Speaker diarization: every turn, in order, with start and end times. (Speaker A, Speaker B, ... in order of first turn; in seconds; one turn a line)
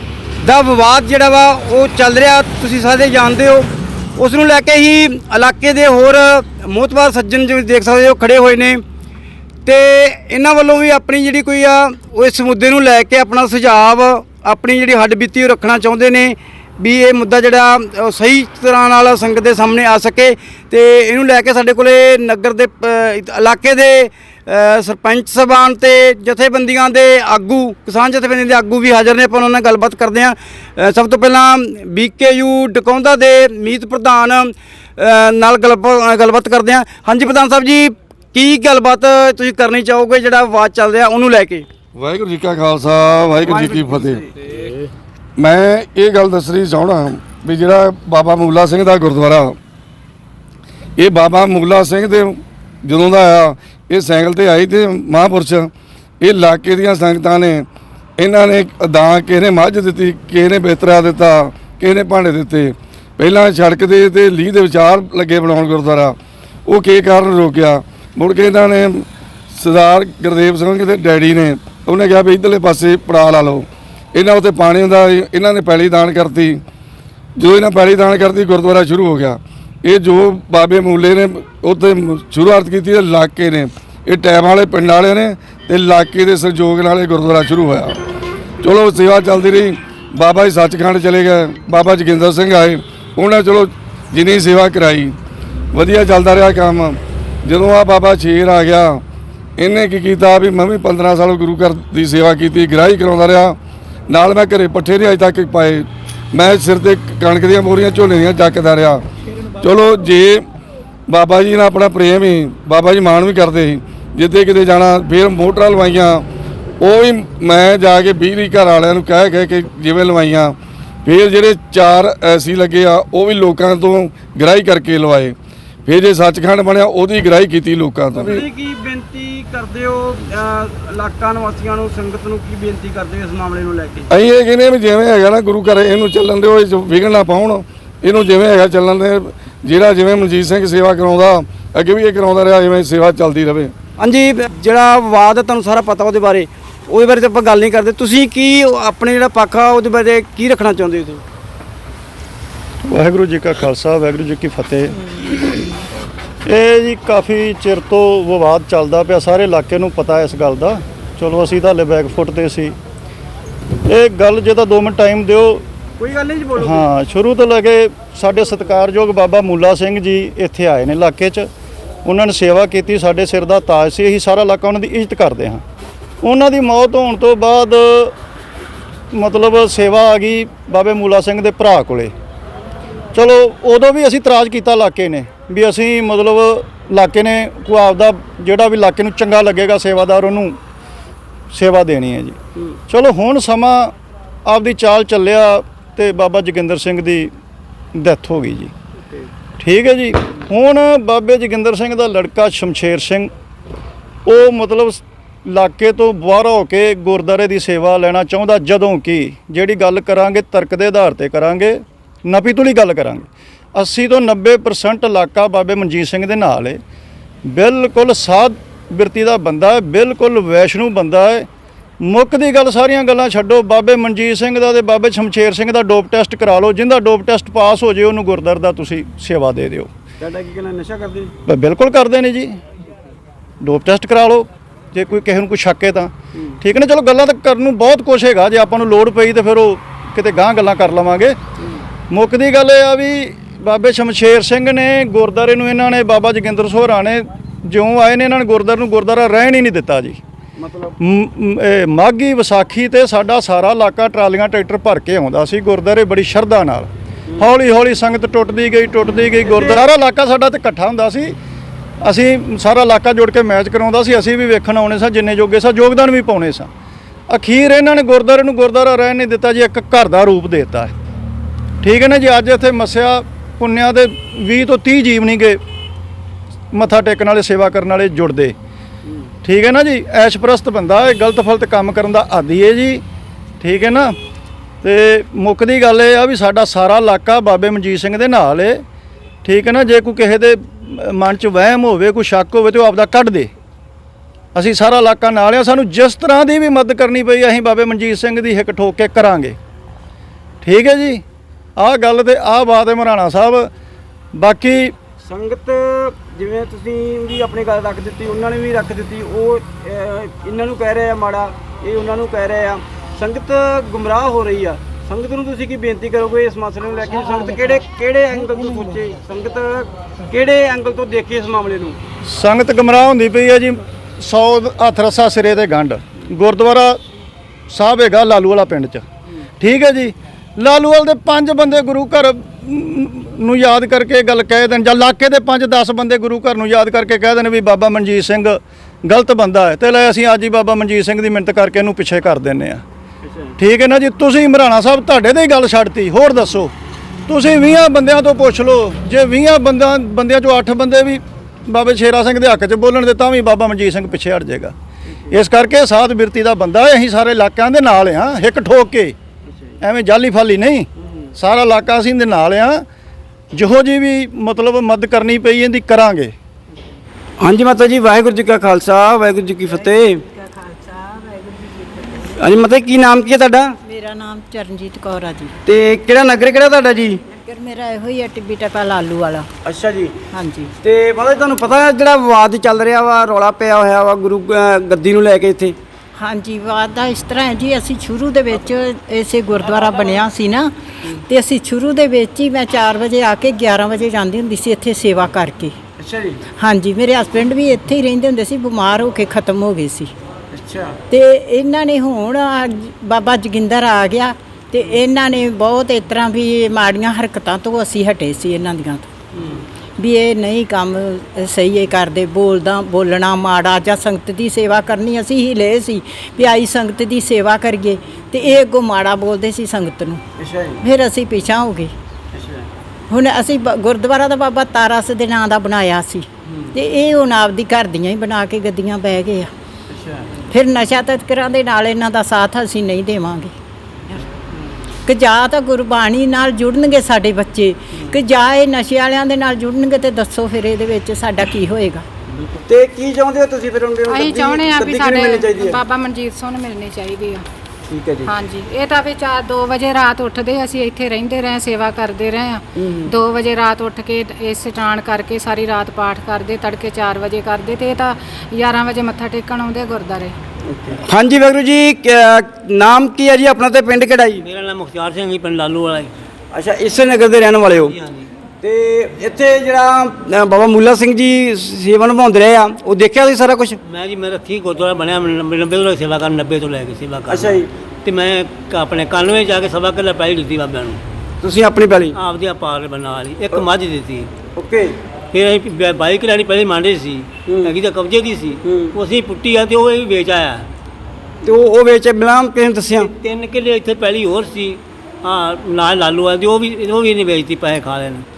Speaker A: 0.4-8.8
Speaker A: 9.7-41.7
Speaker B: 42.0-44.2
Speaker A: 43.3-44.5
Speaker B: 45.4-49.6
Speaker B: 51.0-55.7
Speaker B: 56.2-57.7
Speaker B: 58.2-66.2
Speaker B: 66.7-76.6
Speaker B: 77.4-88.0
Speaker B: 88.6-95.2
Speaker B: 95.7-99.0
Speaker B: 99.6-103.6
Speaker B: 104.1-109.0
Speaker B: 109.6-110.4
Speaker B: 111.1-116.2
Speaker B: 116.8-128.4
Speaker A: 128.2-134.1
Speaker B: 134.1-143.7
Speaker A: 144.0-151.2
Speaker C: 152.9-155.0
Speaker C: 156.5-162.8
Speaker C: 163.9-165.6
Speaker A: 166.0-166.8
Speaker C: 166.6-171.5
Speaker C: 172.1-175.6
Speaker C: 176.2-178.2
Speaker C: 179.1-182.1
Speaker C: 183.1-190.6
Speaker C: 191.5-192.4
Speaker C: 192.9-193.9
Speaker C: 194.4-197.3
Speaker C: 197.9-198.7
Speaker A: 199.0-199.3
Speaker C: 199.6-203.3
Speaker C: 204.2-216.8
Speaker C: 217.4-221.5
Speaker C: 222.0-229.9
Speaker A: 230.2-231.3
Speaker C: 231.5-232.6
Speaker C: 233.6-241.4
Speaker C: 242.1-250.2
Speaker A: 250.6-251.0
Speaker C: 251.0-261.4
Speaker A: 259.4-259.8
Speaker C: 262.0-266.7
Speaker C: 267.3-270.9
Speaker C: 271.8-275.6
Speaker C: 276.7-278.6
Speaker C: 279.4-283.0
Speaker C: 283.6-284.2
Speaker C: 284.8-288.8
Speaker C: 289.4-293.5
Speaker C: 294.6-299.6
Speaker C: 300.6-301.2
Speaker C: 301.8-303.7
Speaker C: 304.3-304.9
Speaker A: 305.2-322.0
Speaker C: 322.3-327.0
Speaker C: 327.7-329.1
Speaker C: 329.6-342.8
Speaker A: 343.2-343.6
Speaker C: 343.6-346.7
Speaker C: 347.3-354.8
Speaker A: 355.1-355.4
Speaker C: 355.3-359.1
Speaker A: 359.5-359.7
Speaker C: 359.8-362.9
Speaker C: 363.5-366.3
Speaker A: 367.4-370.2
Speaker D: 370.1-372.2
Speaker A: 372.4-373.8
Speaker D: 373.9-375.6
Speaker A: 375.6-377.2
Speaker D: 377.3-379.5
Speaker A: 379.6-380.2
Speaker D: 380.3-380.7
Speaker A: 380.8-385.8
Speaker D: 386.2-390.7
Speaker D: 391.3-395.8
Speaker A: 396.0-396.4
Speaker D: 396.6-400.1
Speaker A: 400.5-401.0
Speaker D: 401.1-409.1
Speaker A: 409.3-409.7
Speaker D: 410.0-420.2
Speaker A: 420.4-420.8
Speaker D: 420.8-421.9
Speaker A: 422.3-422.7
Speaker D: 423.1-429.5
Speaker A: 426.5-426.7
Speaker A: 429.9-430.4
Speaker D: 430.5-433.5
Speaker D: 435.1-442.1
Speaker A: 442.6-445.8
Speaker E: 444.1-447.4
Speaker A: 447.9-448.3
Speaker E: 448.3-460.4
Speaker A: 452.8-453.1
Speaker A: 460.7-464.4
Speaker F: 464.4-466.1
Speaker A: 466.5-467.9
Speaker F: 467.8-468.3
Speaker A: 468.6-473.8
Speaker F: 473.8-481.0
Speaker A: 477.3-477.7
Speaker A: 481.4-482.2
Speaker F: 482.1-484.3
Speaker A: 484.6-485.0
Speaker F: 485.3-490.7
Speaker A: 487.5-487.7
Speaker A: 488.6-488.9
Speaker A: 491.4-493.1
Speaker F: 493.0-498.3